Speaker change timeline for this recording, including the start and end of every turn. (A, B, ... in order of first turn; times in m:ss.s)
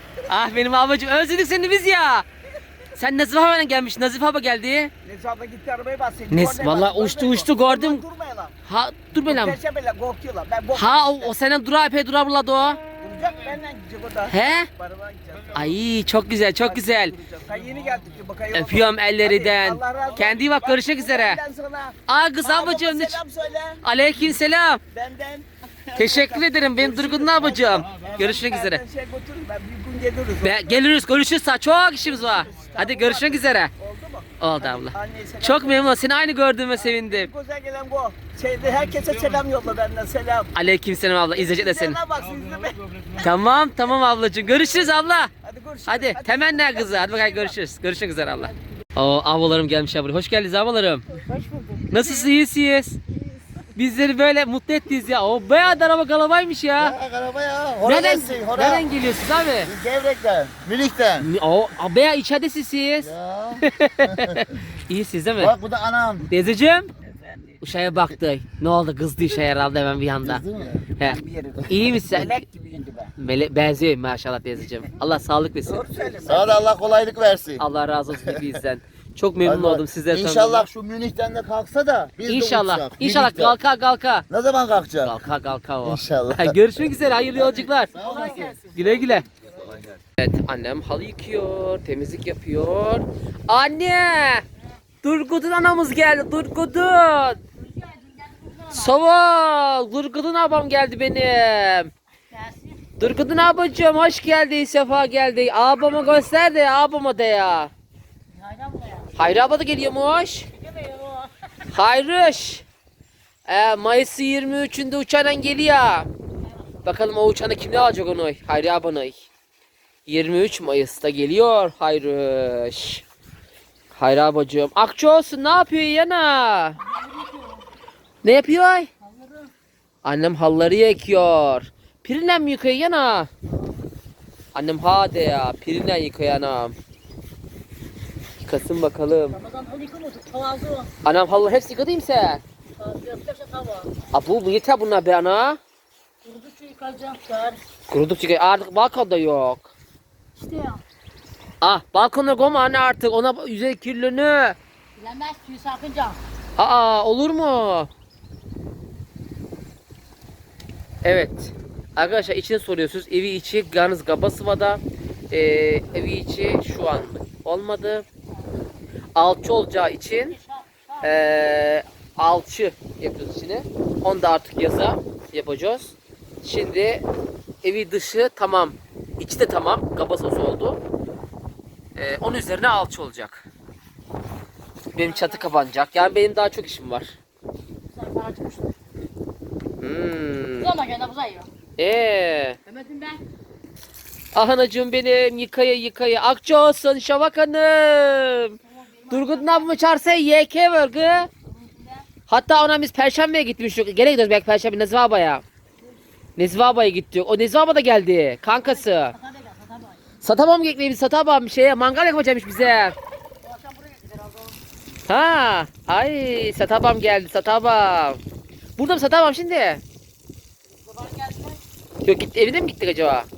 0:00.3-0:02.3 A
0:02.9-0:04.9 A
0:05.0-0:08.5 B
0:06.3-0:08.0 A
0:08.6-0:09.6 A
0:09.2-0:11.3 B
0:10.7-0:12.8 A
0:13.0-0:15.8 B
0:14.3-0:14.7 A
0:15.5-0:17.1 A
0:16.6-0:23.8 B
0:18.5-0:21.4 A
0:22.1-0:23.2 A
0:23.8-0:24.8 A
0:24.9-0:30.8 B
0:26.0-0:28.8 A
0:30.4-0:33.7 A
0:32.1-0:35.9 B
0:34.4-0:37.3 A
0:36.8-0:40.5 B
0:40.6-0:42.0 A
0:41.4-0:43.3 B
0:43.2-0:45.3 A
0:45.4-0:47.6 B
0:45.9-0:51.2 A
0:51.3-0:51.9 B
0:51.9-0:53.0 A
0:53.8-0:57.0 A
0:56.8-0:58.9 C
0:57.8-0:59.7 A
0:59.6-1:01.3 C
1:01.2-1:05.5 A
1:03.0-1:04.4 C
1:05.4-1:06.3 C
1:06.3-1:06.9 A
1:07.6-1:10.4 A
1:10.2-1:10.8 C
1:11.0-1:12.4 A
1:11.0-1:13.1 B
1:13.2-1:15.9 A
1:15.7-1:16.7 B
1:16.2-1:18.5 C
1:17.6-1:20.7 A
1:19.4-1:23.6 C
1:22.2-1:24.3 A
1:24.3-1:25.2 C
1:25.0-1:29.3 A
1:25.8-1:26.6 C
1:27.4-1:28.6 C
1:27.9-1:28.8 D
1:30.2-1:34.4 A
1:35.0-1:37.4 A
1:37.6-1:38.9 D
1:38.7-1:41.9 A
1:42.3-1:42.9 D
1:43.0-1:47.7 A
1:48.4-1:49.1 D
1:49.2-1:50.5 A
1:50.6-1:51.5 D
1:51.7-1:52.6 A
1:53.5-1:56.1 A
1:56.8-1:59.2 A
2:00.1-2:03.0 A
2:03.9-2:06.8 A
2:06.9-2:07.6 D
2:08.2-2:08.9 A
2:09.0-2:09.5 D
2:10.0-2:13.3 A
2:14.5-2:16.8 A
2:18.4-2:19.4 A
2:19.3-2:20.9 D
2:21.0-2:22.4 A
2:22.8-2:24.1 D
2:24.1-2:25.6 A
2:26.2-2:27.6 D
2:27.9-2:29.7 A
2:30.4-2:30.8 D
2:31.6-2:34.6 A
2:35.0-2:36.2 D
2:36.6-2:37.9 A
2:41.0-2:48.0 A
2:49.2-2:50.4 A
2:50.3-2:51.1 D
2:51.0-2:57.1 A
2:57.6-3:00.8 A
3:02.0-3:03.5 A
3:04.9-3:07.2 A
3:05.0-3:05.4 D
3:07.9-3:08.7 D
3:09.8-3:10.8 A
3:10.6-3:11.5 D
3:11.8-3:12.6 A
3:12.7-3:13.2 D
3:14.3-3:18.6 A
3:18.6-3:19.7 D
3:19.1-3:21.3 A
3:21.5-3:22.1 D
3:22.3-3:25.4 A
3:26.4-3:29.2 A
3:28.5-3:30.0 D
3:30.2-3:33.0 A
3:33.4-3:34.6 D
3:35.1-3:38.2 A
3:38.8-3:39.8 A
3:40.8-3:41.6 D
3:42.0-3:43.3 A